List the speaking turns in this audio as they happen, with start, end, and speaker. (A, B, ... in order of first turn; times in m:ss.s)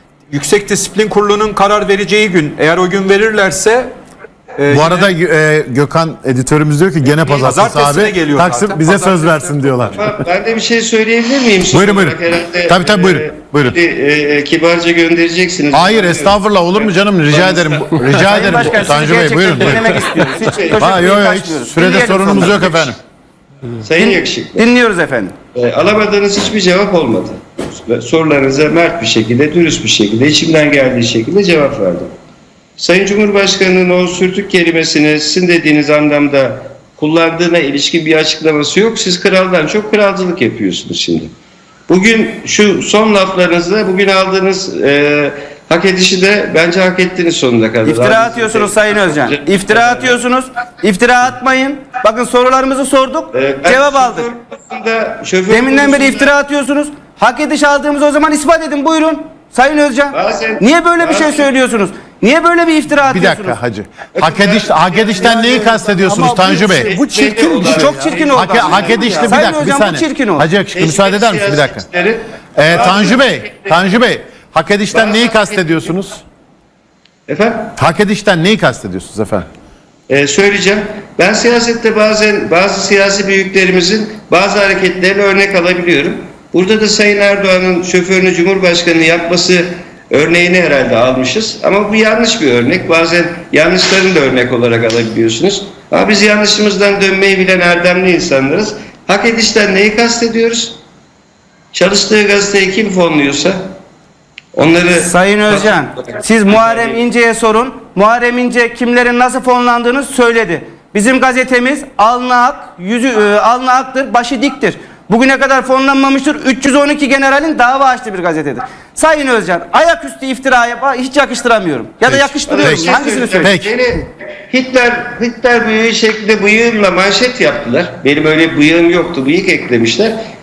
0:00.3-0:03.9 A
0:04.6-0:05.1 A
0:04.7-0:10.1 B
0:07.4-0:09.9 A
0:10.0-0:18.6 C
0:11.7-0:13.8 B
0:15.7-0:20.1 B
0:18.3-0:22.8 D
0:20.3-0:20.9 C
0:20.8-0:23.0 B
0:23.8-0:24.6 C
0:24.0-0:25.3 D
0:25.6-0:32.1 C
0:32.8-0:41.3 C
0:41.9-0:50.2 C
0:47.8-0:54.3 D
0:53.3-0:56.3 C
0:55.5-1:03.6 D
1:00.1-1:01.5 C
1:03.0-1:07.0 B
1:04.2-1:09.4 C
1:07.4-1:10.5 D
1:08.2-1:11.8 B
1:10.7-1:13.8 C
1:12.6-1:16.2 B
1:14.9-1:15.8 C
1:17.3-1:17.7 C
1:17.8-1:19.5 B
1:20.1-1:40.8 C
1:41.7-1:43.6 C
1:44.6-1:47.0 C
1:44.9-2:03.5 D
2:02.1-2:03.7 B
2:02.5-2:10.2 C